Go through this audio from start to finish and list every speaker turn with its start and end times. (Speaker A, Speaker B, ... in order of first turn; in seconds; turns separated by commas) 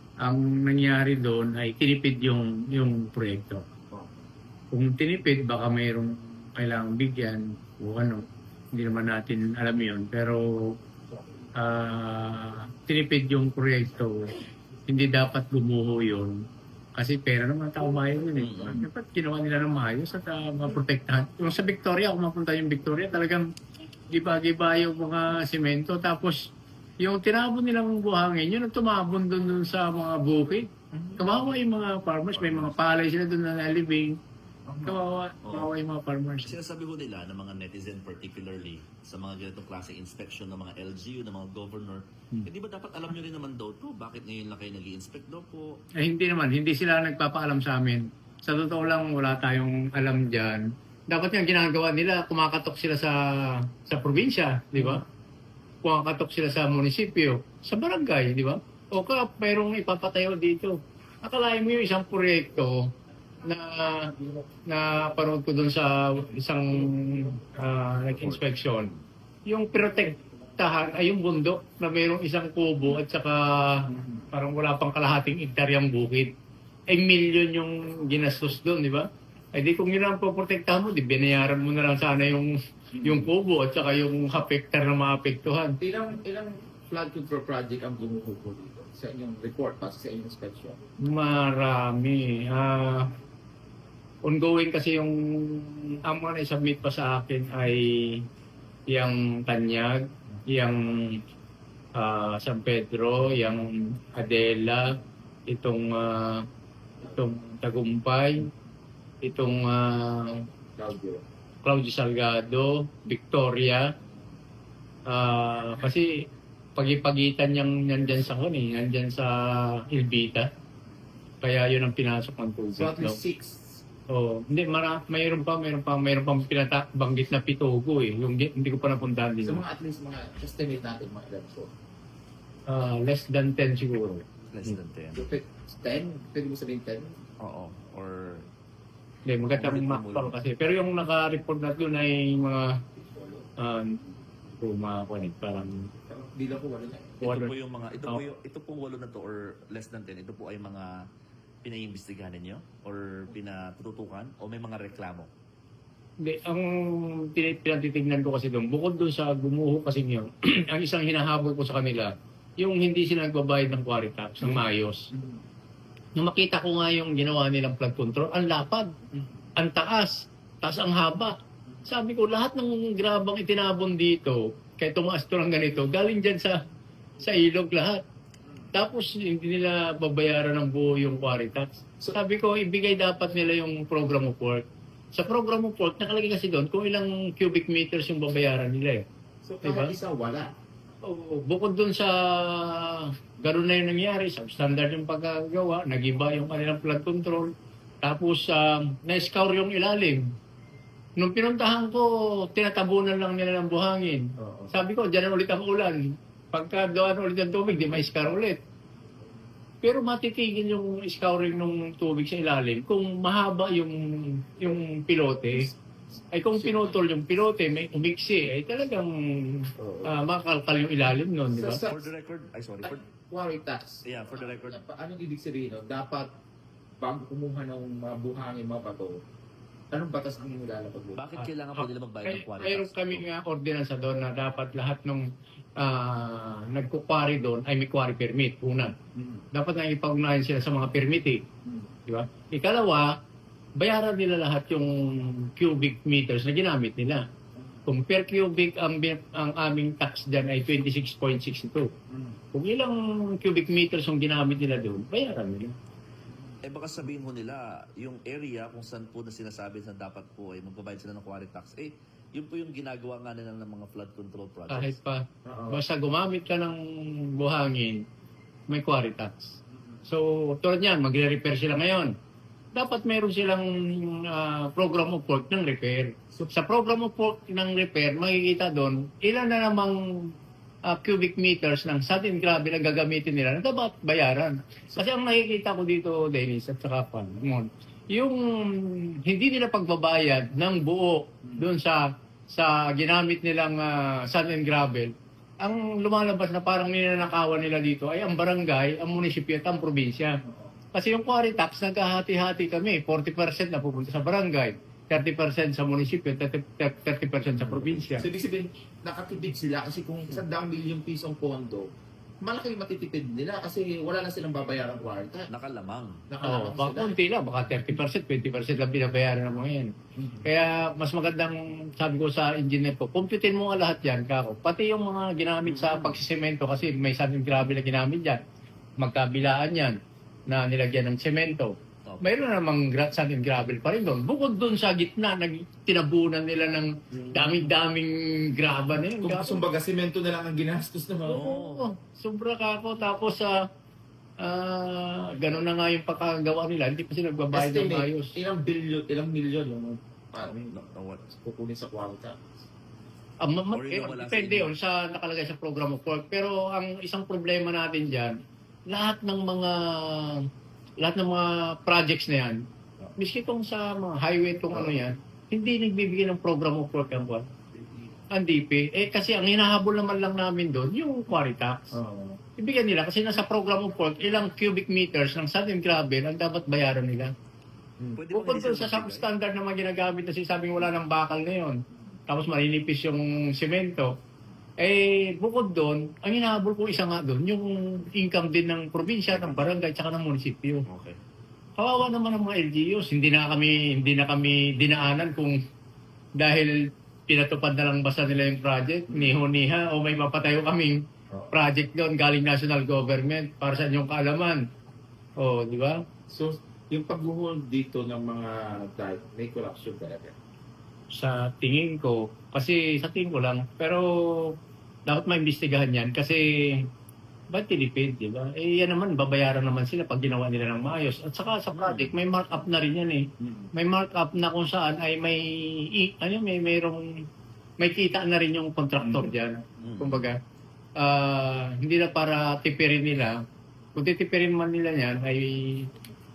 Speaker A: 0.2-3.7, Speaker A: 4.7-8.2, Speaker A: 8.8-10.7, Speaker A: 11.6-14.3, Speaker A: 14.9-16.4, Speaker A: 16.9-23.5, Speaker B: 18.4-18.8, Speaker A: 24.1-34.2, Speaker C: 30.9-31.2, Speaker B: 32.3-32.8, Speaker C: 34.7-35.0, Speaker A: 34.9-36.6, Speaker B: 35.4-35.7, Speaker B: 36.4-45.7, Speaker A: 46.0-55.0, Speaker A: 55.8-62.9, Speaker A: 63.5-64.1, Speaker A: 64.7-68.9, Speaker A: 69.5-76.3, Speaker A: 76.9-85.8, Speaker C: 83.0-83.3, Speaker C: 85.8-90.8, Speaker A: 91.0-93.1, Speaker A: 94.2-98.2, Speaker A: 98.9-101.2, Speaker A: 102.0-105.0, Speaker A: 105.5-106.5, Speaker A: 107.1-108.5, Speaker A: 109.2-110.4, Speaker C: 110.7-111.2, Speaker A: 111.6-113.9, Speaker A: 115.1-116.1, Speaker A: 116.8-120.5, Speaker A: 121.4-123.2, Speaker C: 122.8-123.8, Speaker A: 124.1-129.6, Speaker C: 129.4-131.7, Speaker A: 132.7-134.8, Speaker B: 134.5-135.3, Speaker C: 135.1-137.2, Speaker B: 137.4-138.5, Speaker A: 139.3-142.8, Speaker B: 139.5-140.3, Speaker C: 143.0-143.5, Speaker A: 143.6-144.0, Speaker A: 144.6-145.9, Speaker C: 146.1-147.2, Speaker B: 147.2-150.9, Speaker A: 147.2-147.5, Speaker B: 151.6-155.3, Speaker A: 156.2-165.1, Speaker C: 165.1-165.4, Speaker A: 166.2-168.9, Speaker A: 169.6-171.3, Speaker A: 171.9-176.6, Speaker A: 177.2-178.0, Speaker A: 178.7-184.6, Speaker A: 185.1-189.0, Speaker C: 189.4-190.5, Speaker A: 189.6-189.9, Speaker A: 191.1-197.5, Speaker A: 198.0-200.2, Speaker A: 201.2-206.0, Speaker A: 206.5-208.6, Speaker A: 209.8-215.7, Speaker A: 216.3-221.8, Speaker C: 216.6-217.0, Speaker C: 219.8-220.2, Speaker C: 221.5-222.1, Speaker B: 221.9-223.0, Speaker C: 222.8-226.3, Speaker B: 224.0-224.8, Speaker C: 227.0-229.2, Speaker C: 229.9-231.2, Speaker B: 231.2-233.3, Speaker A: 231.8-235.3, Speaker A: 235.8-238.9, Speaker C: 239.2-239.4, Speaker A: 239.5-241.4, Speaker A: 242.1-243.1, Speaker A: 243.8-247.2, Speaker A: 247.9-251.9, Speaker C: 252.1-252.4, Speaker A: 252.5-255.7, Speaker B: 256.6-265.0, Speaker A: 264.7-266.8, Speaker C: 265.4-265.8, Speaker A: 267.4-268.0, Speaker A: 268.7-272.1, Speaker A: 272.7-280.3, Speaker A: 280.9-300.4, Speaker A: 300.9-308.3, Speaker C: 307.6-311.9, Speaker C: 312.4-315.5, Speaker B: 315.5-316.3, Speaker C: 316.3-317.2, Speaker A: 316.4-319.9, Speaker C: 320.2-320.4, Speaker A: 320.4-328.4, Speaker B: 325.6-326.2, Speaker A: 329.0-339.6, Speaker C: 337.1-337.6, Speaker C: 339.1-341.5, Speaker A: 341.2-343.5, Speaker B: 341.3-341.9, Speaker A: 344.4-348.3, Speaker C: 347.5-350.8, Speaker B: 350.7-351.3, Speaker C: 351.3-352.4, Speaker A: 353.4-358.4, Speaker B: 353.7-354.7, Speaker A: 358.9-360.5, Speaker A: 361.0-362.6, Speaker A: 363.2-367.5, Speaker A: 368.3-372.0, Speaker C: 371.9-372.4, Speaker A: 372.6-377.3, Speaker B: 378.1-379.3, Speaker A: 378.3-384.1, Speaker A: 384.8-390.9, Speaker B: 390.9-391.2, Speaker A: 391.8-395.6, Speaker A: 396.4-396.7, Speaker A: 397.3-401.0, Speaker C: 399.1-399.4, Speaker A: 401.5-404.6, Speaker A: 405.4-406.0, Speaker C: 406.3-410.4, Speaker A: 411.1-414.6, Speaker A: 415.1-416.9, Speaker A: 417.5-427.0, Speaker B: 421.7-422.1, Speaker A: 427.8-430.4, Speaker B: 429.8-430.3, Speaker A: 431.0-433.4, Speaker A: 434.0-435.9